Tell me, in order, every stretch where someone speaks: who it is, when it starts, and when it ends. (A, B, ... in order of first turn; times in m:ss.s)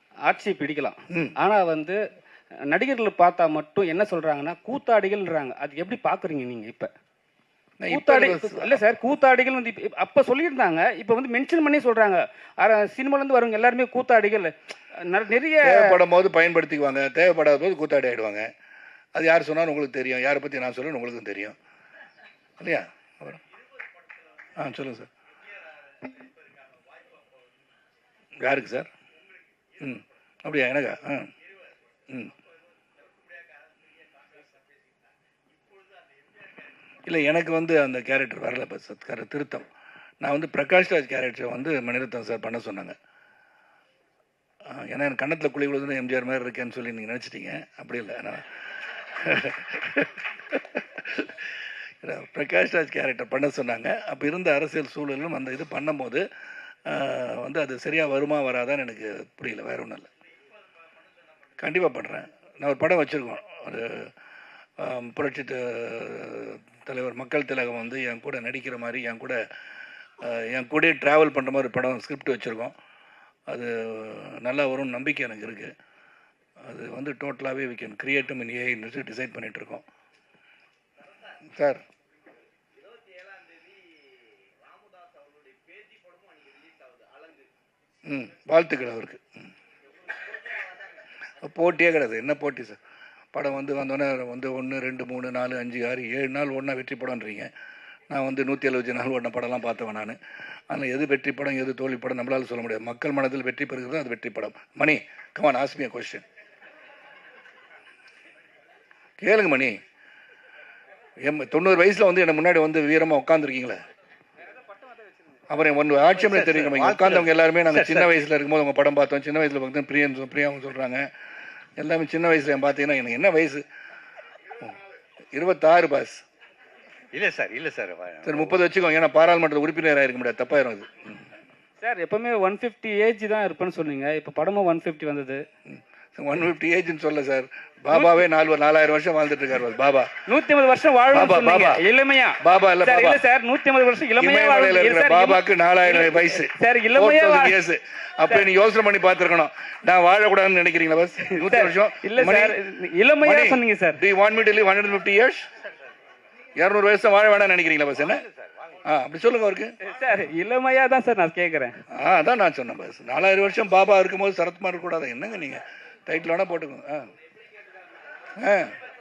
0:00.2-0:02.0 A
0:02.7-0:06.9 A
0:07.8-0:08.8 B
0:07.9-0:16.0 A
0:15.6-0:18.5 B
0:19.2-0:21.6 B
0:22.6-0:23.4 B
0:24.6-0:25.1 B
0:28.4-0:28.9 B
0:29.8-0:31.3 B
0:34.1-0:34.4 C
0:37.1-0:39.7 B
0:40.2-0:43.0 B
0:44.7-0:48.4 B
0:49.1-0:51.5 B
0:52.0-0:56.2 B
0:56.9-1:00.1 B
1:01.6-1:04.1 B
1:04.8-1:09.4 B
1:10.2-1:12.8 B
1:13.5-1:15.7 B
1:16.6-1:19.8 B
1:21.5-1:21.8 B
1:24.8-1:27.4 C
1:28.1-1:29.5 B
1:31.4-1:32.8 B
1:33.3-1:37.5 B
1:38.1-1:40.2 B
1:40.7-1:46.2 B
1:49.2-1:49.8 B
1:51.2-1:53.8 B
1:55.5-2:01.0 B
1:56.2-1:58.1 C
2:01.8-2:03.6 B
2:05.3-2:06.2 B
2:07.1-2:08.4 C
2:08.2-2:11.2 B
2:11.8-2:15.4 A
2:15.7-2:20.1 B
2:20.3-2:27.6 A
2:21.1-2:21.8 B
2:22.4-2:23.2 B
2:24.2-2:32.6 B
2:31.4-2:34.0 A
2:33.2-2:35.5 B
2:36.6-2:38.2 B
2:38.8-2:39.8 B
2:39.8-2:41.8 A
2:41.9-2:47.1 B
2:48.4-2:48.8 B